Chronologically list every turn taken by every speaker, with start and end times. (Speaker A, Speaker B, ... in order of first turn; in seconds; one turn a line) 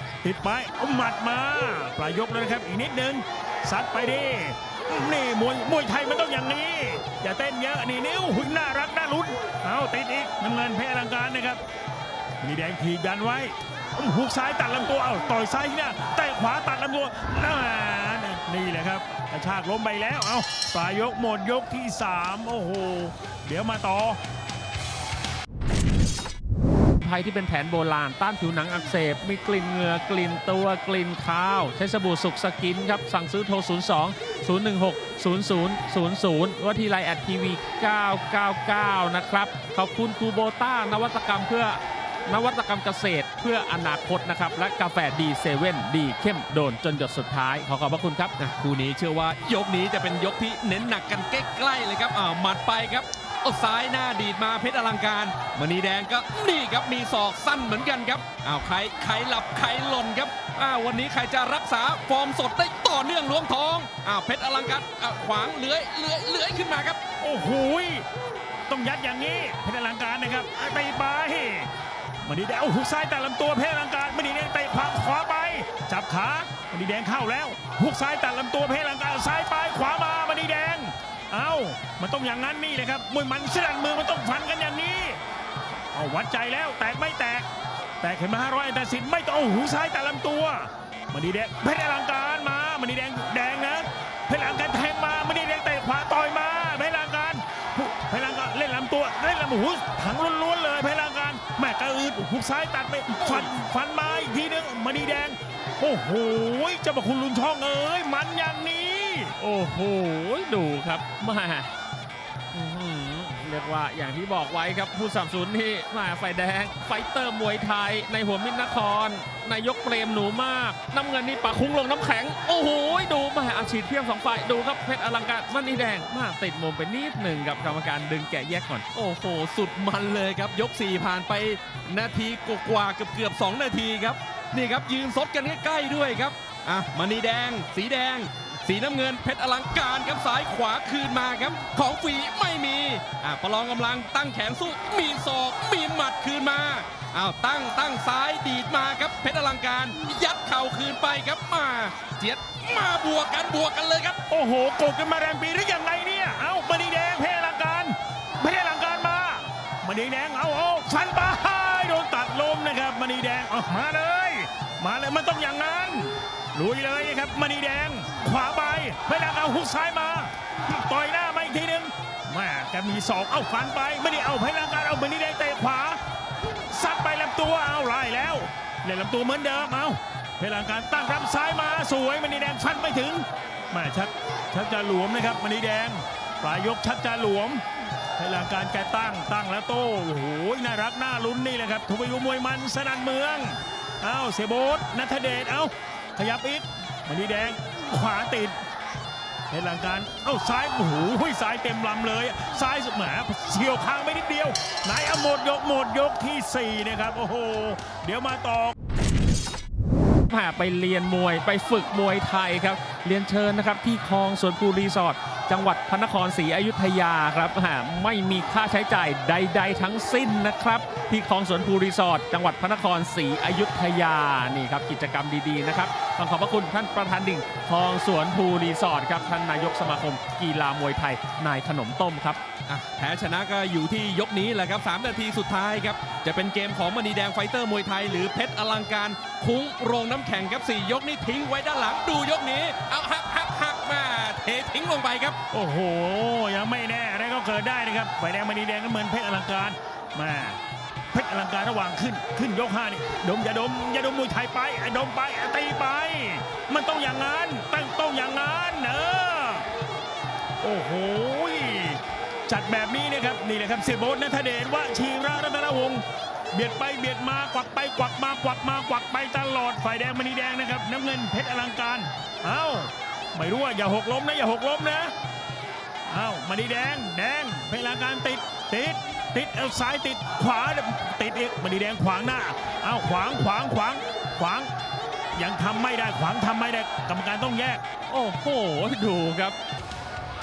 Speaker A: 0.2-11.6
Speaker A: 12.4-24.2
Speaker B: 27.0-48.3
Speaker C: 48.4-67.0
Speaker A: 67.2-68.0
Speaker A: 68.7-71.7
Speaker A: 72.2-85.2
Speaker A: 85.9-87.5
Speaker A: 88.0-109.3
Speaker B: 103.2-103.5
Speaker B: 109.4-111.7
Speaker B: 112.5-128.9
Speaker C: 128.9-154.2
Speaker A: 154.3-176.0
Speaker A: 176.7-187.6
Speaker A: 188.2-198.6
Speaker A: 199.5-208.8
Speaker B: 210.3-232.4
Speaker C: 232.7-245.4
Speaker A: 245.5-250.6
Speaker A: 251.1-259.6
Speaker A: 260.6-275.1
Speaker A: 276.1-284.7
Speaker A: 285.3-287.8
Speaker B: 288.1-289.6